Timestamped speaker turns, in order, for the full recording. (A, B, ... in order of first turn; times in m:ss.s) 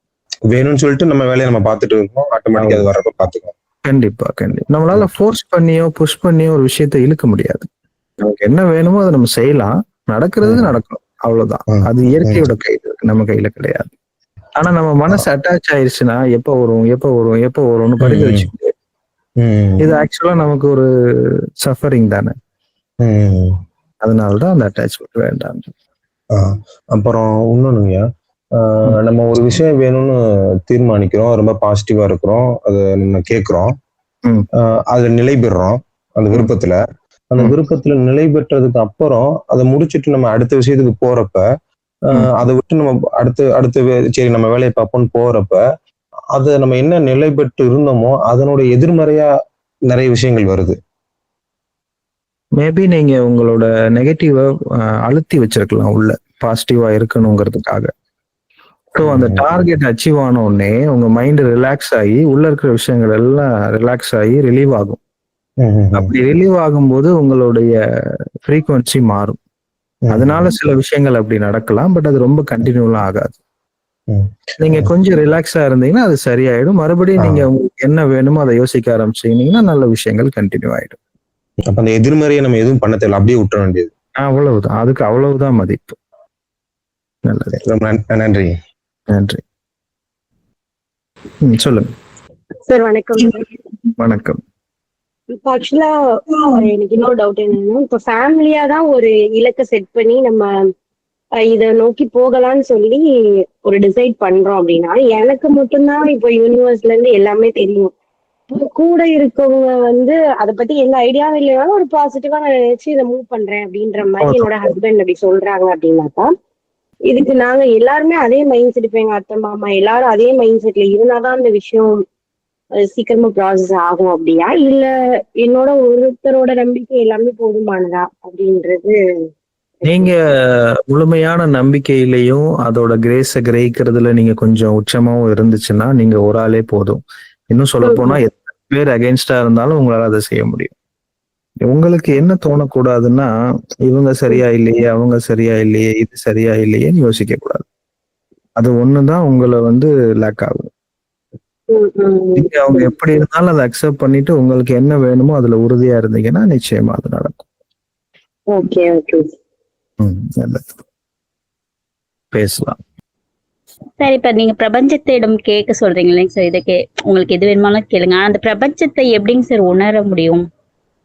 0:00.5-0:03.5 A
0:02.6-0:02.9 B
0:03.8-0:07.7 B
0:08.2-0:13.9 B
0:10.4-0:10.7 A
0:11.7-0:12.4 A
0:14.6-0:18.7 B
0:18.0-0:18.5 A
0:19.4-0:19.9 A
0:19.8-0:20.9 B
0:21.6-0:22.3 B
0:23.0-0:23.5 A
0:24.0-0:25.7 B
0:26.3-0:28.0 A
0:28.5-0:30.2 A
0:30.7-0:33.7 A
0:34.6-0:36.8 A
0:37.3-0:41.4 A
0:42.1-0:45.6 A
0:46.3-0:49.3 A
0:49.9-0:50.8 A
0:52.6-0:54.4 B
0:55.0-0:57.9 B
0:58.9-1:05.0 B
0:59.0-0:59.4 A
1:05.6-1:06.1 A
1:05.9-1:07.7 B
1:08.4-1:09.4 B
1:10.0-1:10.5 A
1:10.1-1:13.4 B
1:14.6-1:21.0 B
1:17.2-1:17.5 A
1:21.7-1:23.9 A
1:24.2-1:26.0 B
1:27.3-1:27.6 B
1:27.7-1:28.5 A
1:29.1-1:29.4 B
1:31.4-1:31.9 B
1:32.6-1:33.5 C
1:34.0-1:34.4 B
1:35.4-1:40.5 C
1:41.4-1:43.0 C
1:43.6-1:47.9 C
1:48.5-1:56.3 C
1:54.2-1:54.7 B
1:57.1-2:02.0 C
2:02.8-2:09.0 C
2:09.8-2:10.1 C
2:09.8-2:10.2 B
2:10.9-2:17.0 B
2:17.5-2:20.7 B
2:17.8-2:18.2 C
2:21.7-2:23.3 B
2:23.9-2:27.6 B
2:28.6-2:30.7 B
2:31.7-2:32.5 C
2:32.4-2:37.4 B
2:38.5-2:39.2 C
2:40.0-2:40.8 B
2:42.3-2:42.8 B
2:44.0-2:50.4 D